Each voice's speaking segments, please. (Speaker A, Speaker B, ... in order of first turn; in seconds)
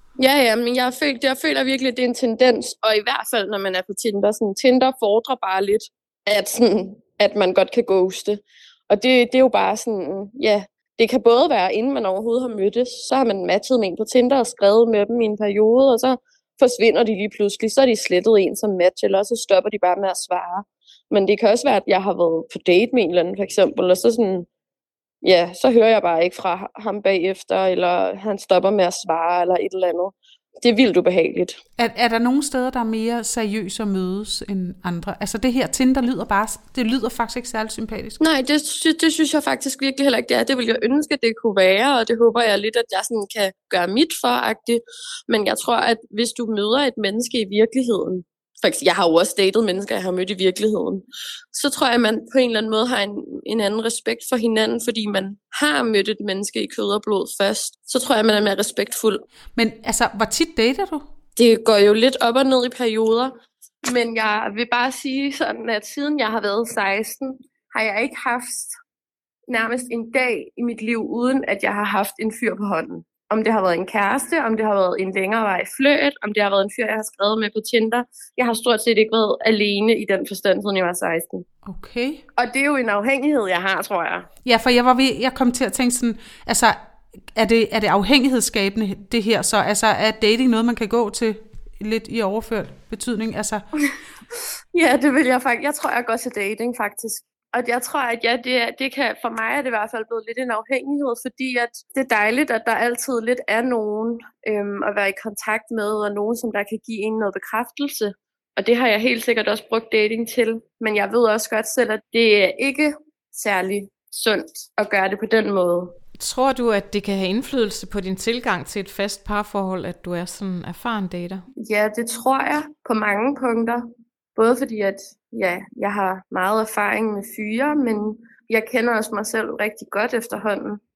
Speaker A: 0.2-24.5, 25.2-31.6, 38.2-59.2, 61.4-63.3, 63.9-68.8, 69.5-81.4, 82.4-84.2, 94.7-115.9, 121.6-130.8
Speaker B: 31.8-38.2, 59.5-61.0, 81.6-82.2, 84.4-86.8, 87.3-93.6
Speaker C: 116.2-121.5